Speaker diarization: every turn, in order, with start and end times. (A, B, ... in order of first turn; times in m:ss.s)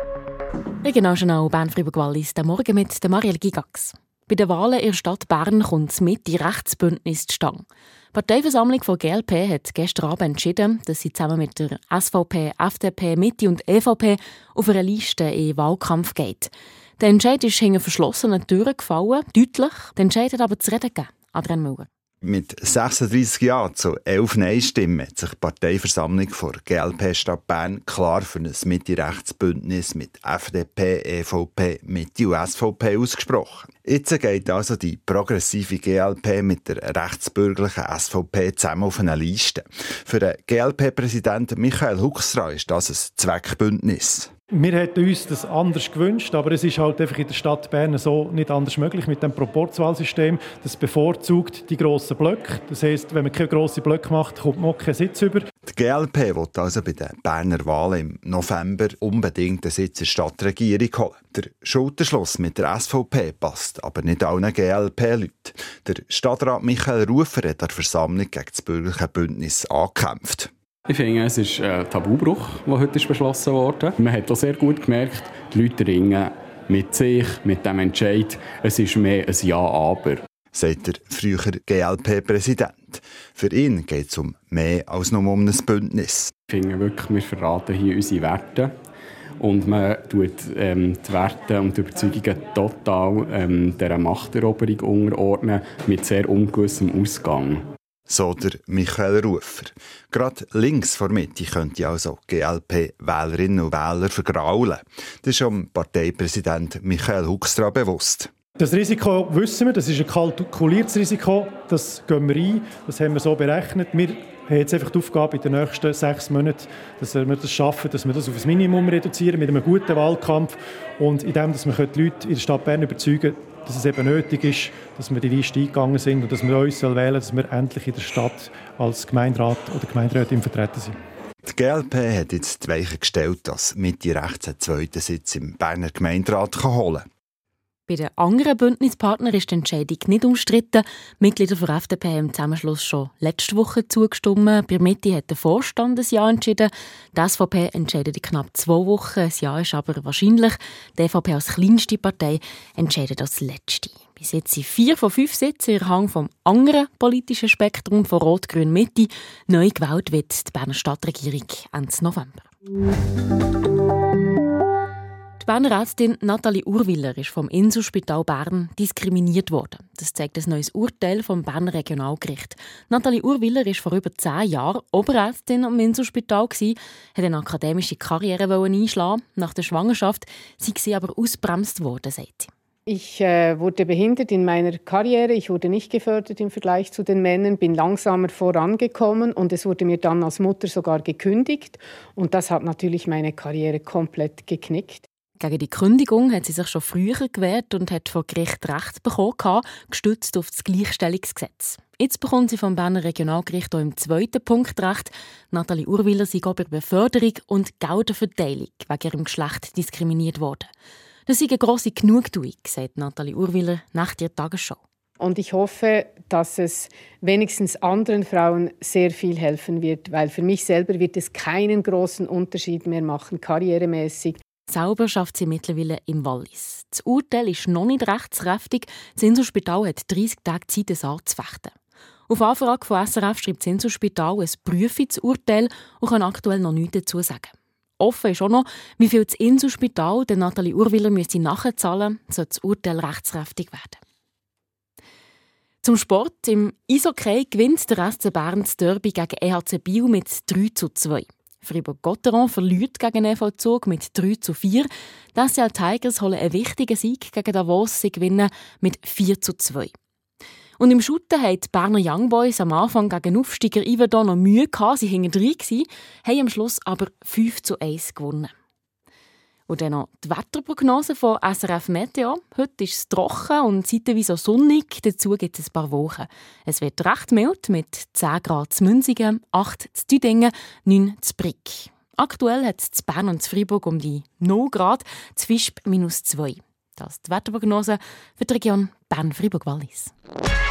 0:00.8-0:21.9 A
0:22.2-0:44.3 B
0:44.5-0:55.5 C
0:55.6-1:10.5 B
1:10.9-1:20.2 D
1:20.5-1:26.3 B
1:26.5-1:28.7 D
1:29.4-1:37.6 D
1:38.1-1:48.3 B
1:48.6-2:11.0 C
2:11.4-2:17.1 B
2:17.9-2:42.5 A
2:45.4-3:02.5 A
3:02.9-3:15.0 E
3:15.4-3:30.7 A
3:31.3-3:34.8 A
3:35.2-3:44.4 E
3:44.7-3:51.7 A
3:52.3-4:04.0 A
4:05.8-4:19.9 A
4:20.8-4:28.5 A
4:29.7-4:50.1 A